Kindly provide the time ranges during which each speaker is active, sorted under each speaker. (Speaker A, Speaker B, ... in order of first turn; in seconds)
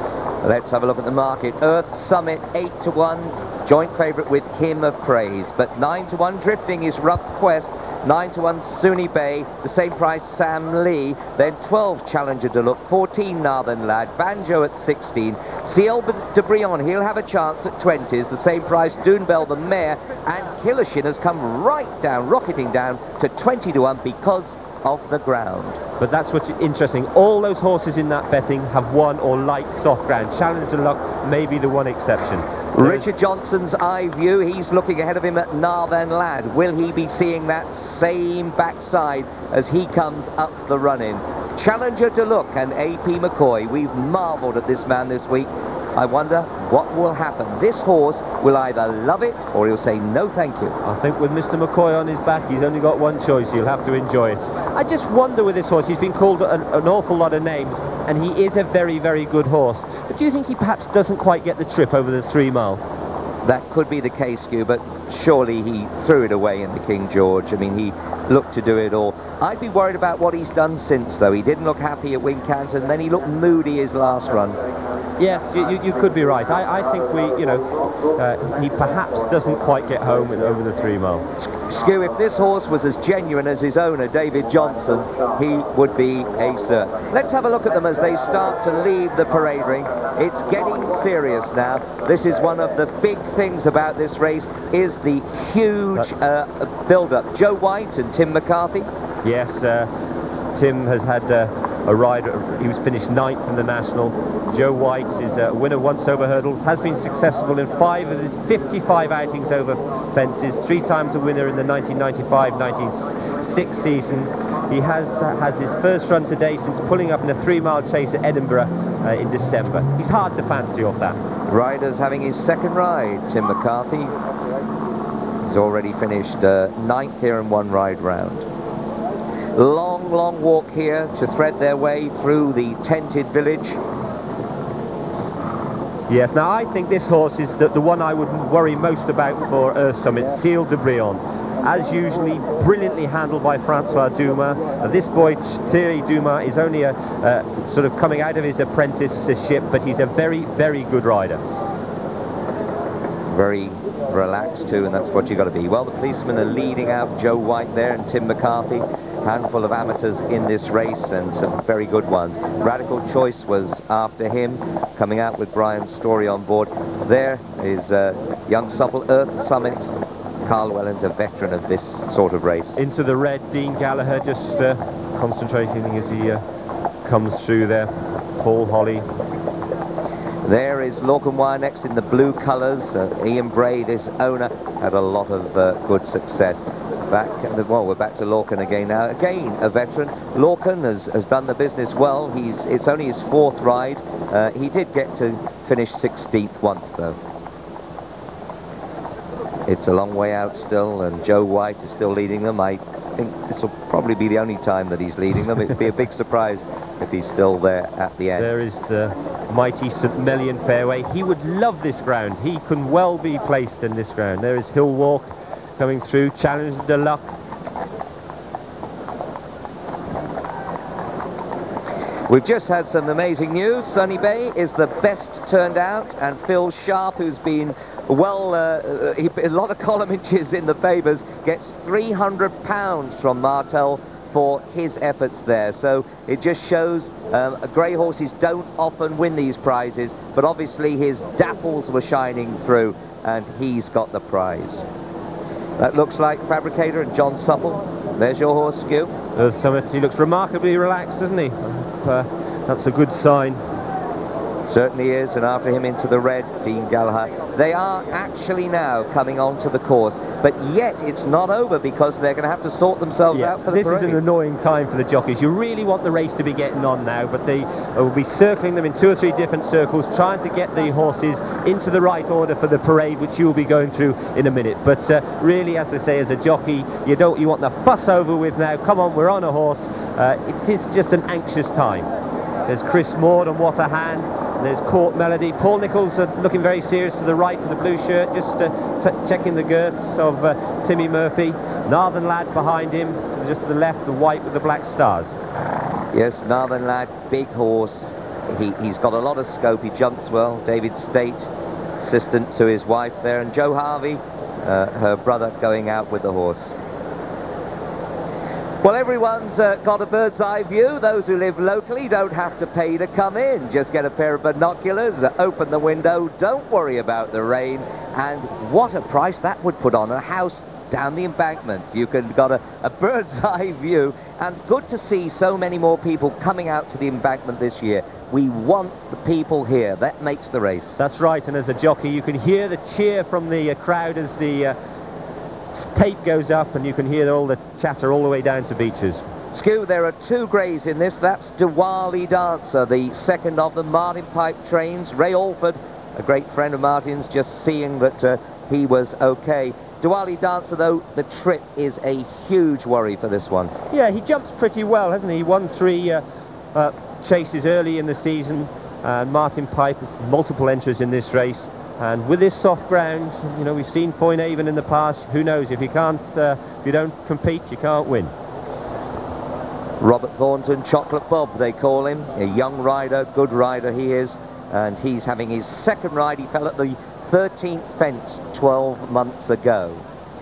Speaker A: 0.4-25.8, 32.7-50.8, 63.4-74.6, 81.4-98.9, 121.5-124.2, 125.5-128.5, 129.6-133.8, 153.3-169.9, 170.4-172.8, 180.4-197.2, 199.7-208.6, 222.3-244.8, 245.8-249.2, 254.7-264.2, 296.1-306.7, 308.8-331.0, 339.5-353.7, 370.0-380.0
Speaker B: 26.0-33.1, 50.8-62.8, 75.2-81.2, 99.2-99.9, 100.5-121.2, 136.1-151.4, 172.8-176.4, 177.1-179.1, 208.4-217.2, 249.4-253.6, 263.3-282.1, 282.7-295.4, 331.0-334.8, 335.7-339.2, 353.9-356.2, 356.7-368.3